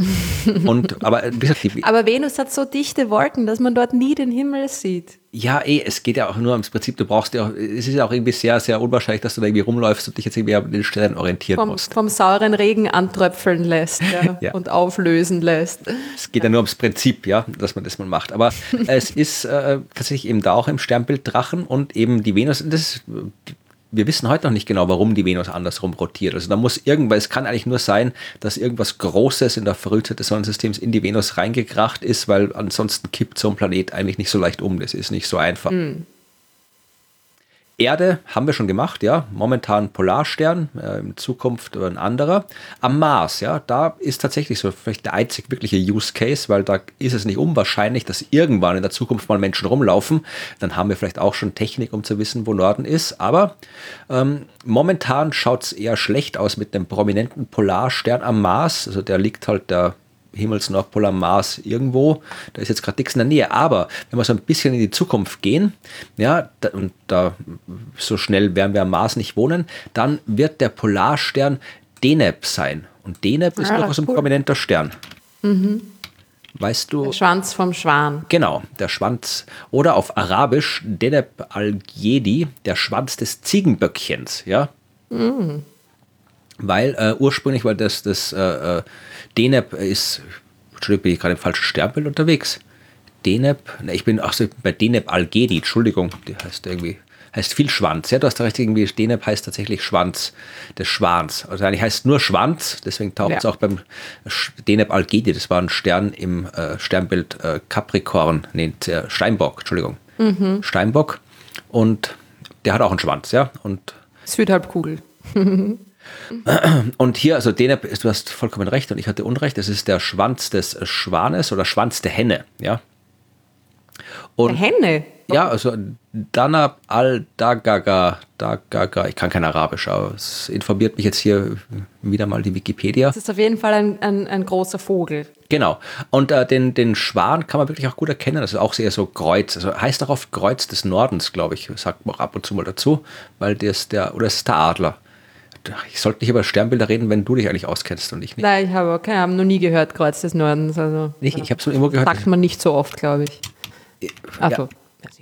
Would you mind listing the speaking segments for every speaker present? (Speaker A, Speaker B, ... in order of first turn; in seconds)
Speaker A: 0.1-0.6, 1.8-5.2, 11.6-16.4, 35.7-36.0, 73.6-74.2, 75.4-75.9, 77.0-78.3, 85.1-85.7, 110.2-110.6, 114.2-115.8, 124.5-125.5, 133.1-135.3, 148.4-153.4, 154.4-154.7
Speaker B: 0.5-1.8, 5.3-11.9, 14.2-14.5, 16.1-35.7, 37.8-53.6, 54.1-74.9, 76.5-77.2, 78.3-84.7, 86.6-92.6, 93.2-110.0, 110.6-114.0, 116.5-122.8, 124.4-124.6, 125.3-133.1, 135.5-145.0, 145.6-148.4, 151.2-152.3, 154.0-154.6